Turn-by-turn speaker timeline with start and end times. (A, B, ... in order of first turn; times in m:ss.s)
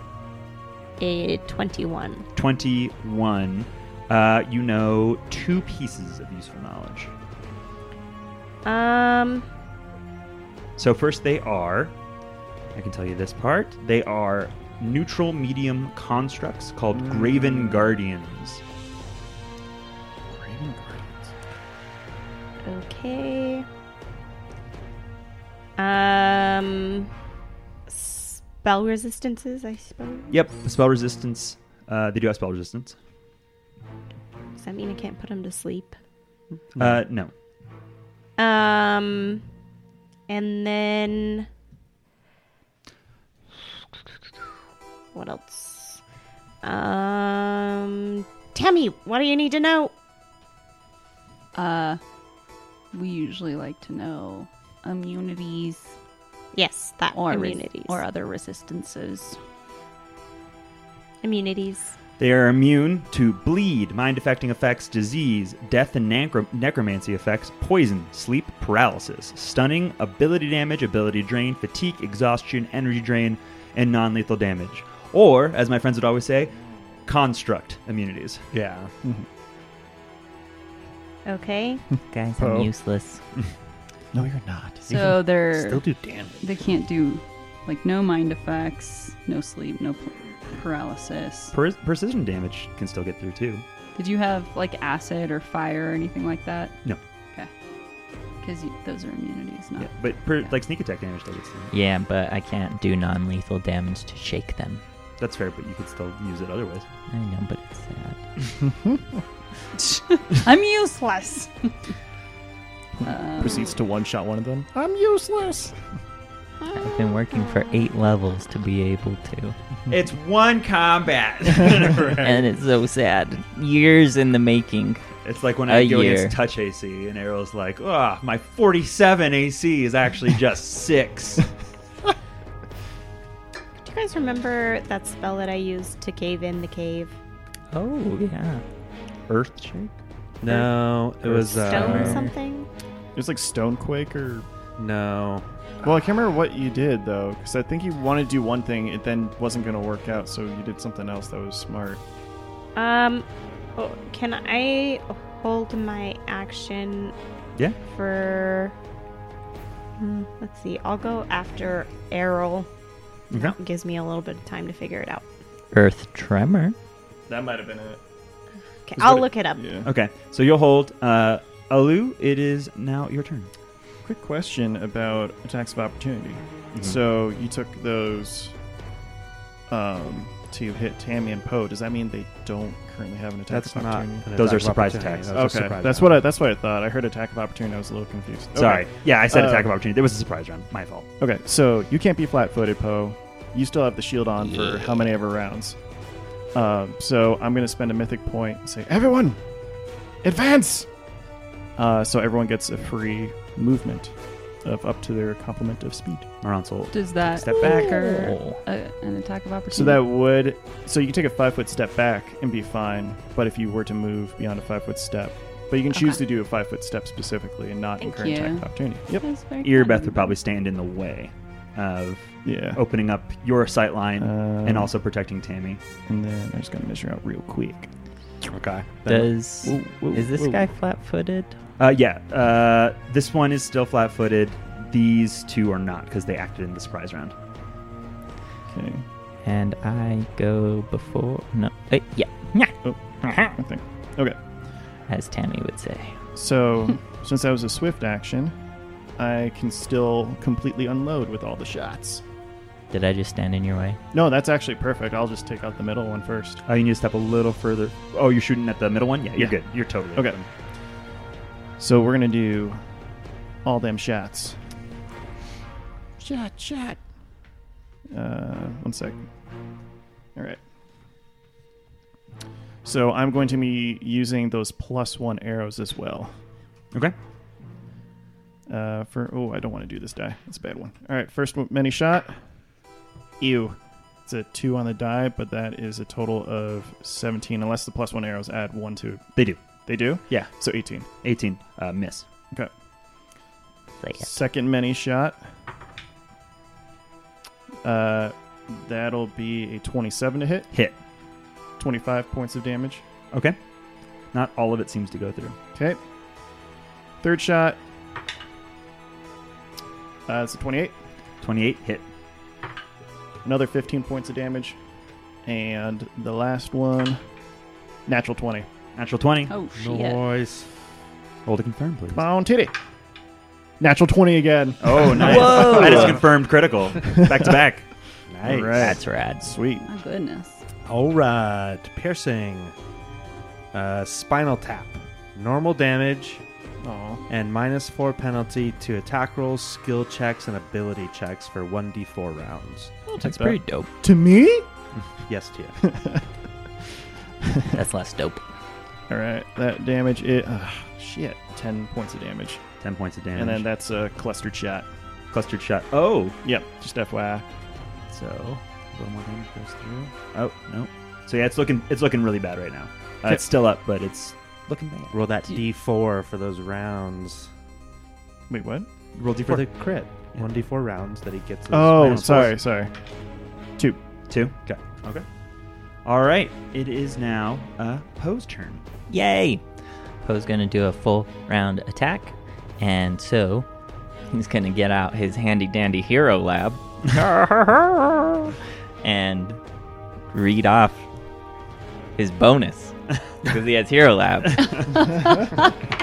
0:01.0-0:02.3 A
0:02.4-0:07.1 B
0:08.6-0:09.5 A
0:10.8-0:11.9 B
0:12.8-0:18.6 B
0:16.9-0:17.9 C
0:20.3-0:21.3 C
0:22.6-0:23.7 A
0:25.8-0:27.1 A
0:27.9-0:30.4 A
0:30.3-0:33.0 B
0:34.6-0:36.0 A
0:36.7-0:37.0 D
0:36.8-0:37.3 B
0:38.4-0:39.4 A
0:40.3-0:41.5 A
0:45.1-0:46.0 A
0:46.6-0:49.9 A
0:51.5-0:52.0 E
0:52.9-0:56.0 E
0:56.5-0:58.0 A
0:57.1-0:59.4 E
1:01.2-1:02.0 A
1:02.2-1:18.5 B
1:18.5-1:18.9 D
1:21.3-1:21.8 A
1:22.1-1:23.2 F
1:22.4-1:22.7 C
1:24.1-1:24.9 C
1:24.9-1:31.5 E
1:24.9-1:26.4 D
1:31.5-1:33.6 B
1:34.0-1:36.8 E
1:38.4-1:40.5 E
1:39.8-1:41.7 B
1:41.7-1:44.8 F
1:45.2-1:46.9 B
1:47.1-1:48.2 F
1:49.8-1:51.9 E
1:53.0-1:56.0 C
1:53.0-1:53.8 E
1:56.7-1:57.6 A
1:56.8-1:59.6 F
1:59.9-2:02.3 B
2:02.2-2:05.0 F
2:05.2-2:11.5 B
2:05.7-2:06.4 F
2:13.8-2:17.2 A
2:17.7-2:18.6 F
2:19.3-2:19.9 B
2:20.4-2:22.3 D
2:20.5-2:22.7 A
2:21.4-2:22.3 F
2:23.2-2:24.5 C
2:24.8-2:25.5 D
2:25.8-2:32.0 C
2:32.8-2:37.2 A
2:37.9-2:38.8 A
2:40.0-2:42.7 A
2:43.3-2:43.6 B
2:43.3-2:45.2 A
2:45.7-2:46.8 F
2:47.3-2:48.0 C
2:48.9-2:49.7 A
2:49.0-2:49.2 B
2:49.0-2:49.9 C
2:49.8-2:53.5 B
2:54.0-2:58.6 C
2:56.7-2:57.0 B
2:59.7-3:04.3 C
3:03.5-3:06.2 D
3:04.4-3:05.3 B
3:05.3-3:09.7 C
3:08.5-3:11.1 B
3:11.2-3:15.8 C
3:14.4-3:15.2 F
3:16.5-3:19.6 C
3:20.2-3:20.9 C
3:21.8-3:26.3 C
3:26.4-3:28.0 B
3:26.9-3:30.0 E
3:27.6-3:28.6 F
3:29.7-3:39.3 C
3:35.9-3:36.2 E
3:38.0-3:40.2 E
3:39.2-3:40.2 A
3:39.6-3:45.8 B
3:42.4-3:42.8 C
3:44.2-3:44.9 C
3:46.1-3:47.9 C
3:48.4-3:49.3 D
3:49.1-3:51.6 F
3:49.6-3:50.7 C
3:51.8-3:57.3 B
3:58.7-3:59.1 C
3:59.4-4:03.6 F
4:02.8-4:04.4 C
4:05.1-4:06.2 F
4:06.4-4:08.6 C
4:09.2-4:12.2 C
4:12.9-4:14.0 F
4:14.1-4:16.6 C
4:16.7-4:20.5 B
4:20.1-4:20.4 C
4:21.8-4:22.8 C
4:23.6-4:24.6 C
4:26.2-4:27.0 C
4:28.1-4:29.2 C
4:30.4-4:30.6 C
4:32.8-4:36.4 C
4:38.7-4:42.4 C
4:43.4-4:49.2 C
4:49.4-4:49.6 B
4:49.8-4:51.1 C
4:50.3-4:50.6 B
4:51.2-4:52.3 B
4:54.0-4:54.3 F
4:54.2-4:55.4 C
4:57.8-5:00.7 C
5:00.7-5:01.0 B
5:01.8-5:03.0 C
5:04.3-5:05.6 B
5:07.2-5:07.8 C
5:10.3-5:11.0 C
5:11.4-5:12.1 B
5:13.4-5:14.8 C
5:15.4-5:17.2 C
5:18.1-5:18.7 C
5:19.0-5:19.5 B
5:19.5-5:20.2 E
5:19.7-5:20.7 D
5:21.5-5:22.3 B
5:22.1-5:22.7 C
5:23.8-5:26.2 C
5:24.8-5:27.9 B
5:25.2-5:26.2 F
5:27.0-5:27.5 C
5:28.3-5:29.0 D
5:28.4-5:29.9 C
5:28.8-5:29.5 F
5:29.8-5:30.6 E
5:30.8-5:32.7 D
5:33.7-5:36.4 D
5:36.8-5:37.2 C
5:37.3-5:42.9 D
5:43.1-5:43.9 F
5:43.2-5:44.7 C
5:45.3-5:45.8 D
5:45.8-5:46.2 C
5:47.7-5:48.4 F
5:49.1-5:52.6 C
5:52.8-5:53.6 B
5:53.4-5:54.9 C
5:55.3-5:56.4 B
5:56.4-5:57.5 C
5:58.1-6:05.2 B
6:05.1-6:07.5 D
6:08.5-6:08.9 C
6:09.2-6:10.5 B
6:09.4-6:12.4 D
6:11.7-6:12.9 C
6:12.0-6:12.6 B
6:14.3-6:15.2 B
6:16.0-6:18.8 B
6:19.1-6:19.7 F
6:20.2-6:23.7 F
6:24.3-6:29.6 F
6:30.3-6:31.0 F
6:32.2-6:35.2 F